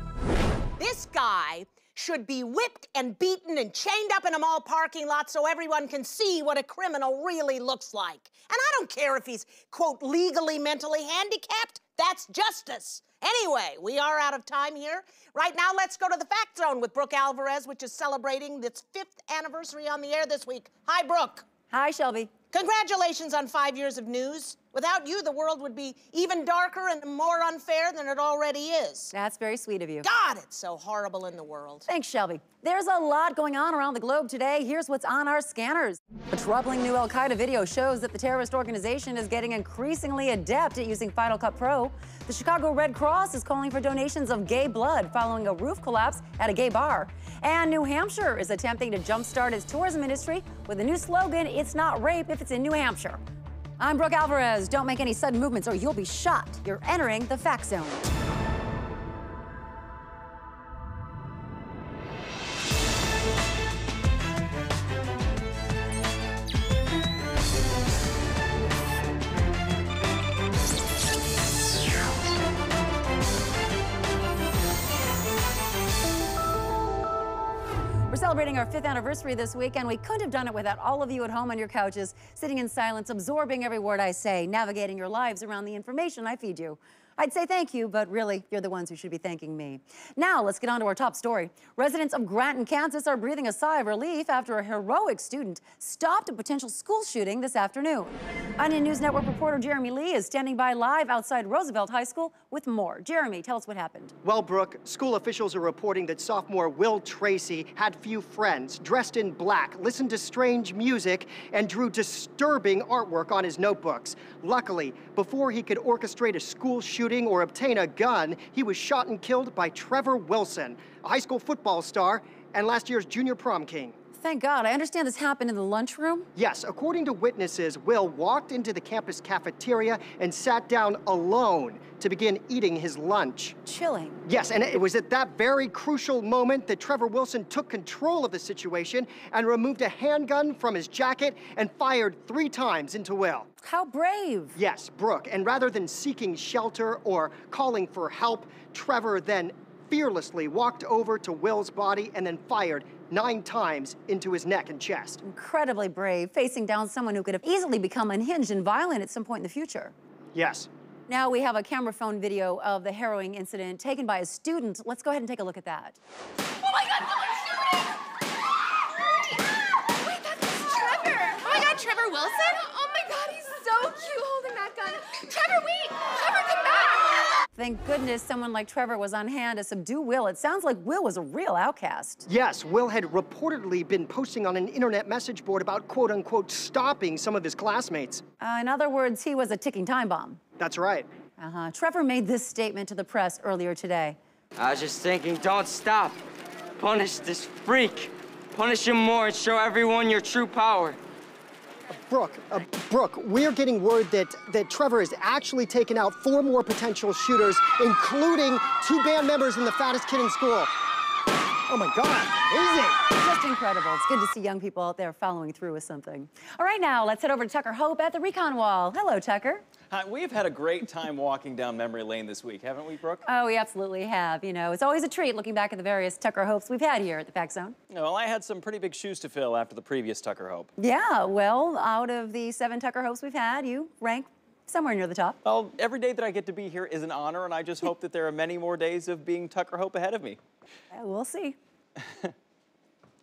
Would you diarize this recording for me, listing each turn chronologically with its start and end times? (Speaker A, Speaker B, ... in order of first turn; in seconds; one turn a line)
Speaker A: 0.8-21.4
Speaker B: 21.7-22.3
Speaker A: 22.5-29.1
Speaker B: 29.1-30.1
Speaker A: 30.0-31.8
Speaker B: 31.9-53.2
Speaker B: 53.8-58.0
Speaker B: 78.1-104.1
Speaker C: 104.2-124.0
Speaker B: 124.2-126.3
Speaker C: 126.3-133.6
Speaker B: 133.6-134.2
Speaker C: 134.3-143.5
Speaker B: 143.6-144.6
Speaker C: 144.6-155.2
Speaker B: 155.2-159.9
Speaker C: 160.3-160.7
Speaker B: 161.1-166.0
Speaker D: 166.6-167.8
Speaker D: 169.0-177.2
Speaker B: 177.6-182.2
Speaker C: 182.3-188.2
Speaker B: 188.4-190.4
Speaker C: 190.6-191.1
Speaker B: 191.4-194.2
Speaker E: 194.6-196.2
Speaker E: 196.8-201.0
Speaker C: 202.1-210.7
Speaker C: 211.7-213.0
Speaker B: 213.1-219.6
Speaker F: 219.9-223.2
Speaker B: 223.2-227.7
Speaker F: 227.9-230.7
Speaker B: 230.8-235.4
Speaker F: 235.4-240.4
Speaker B: 240.9-241.6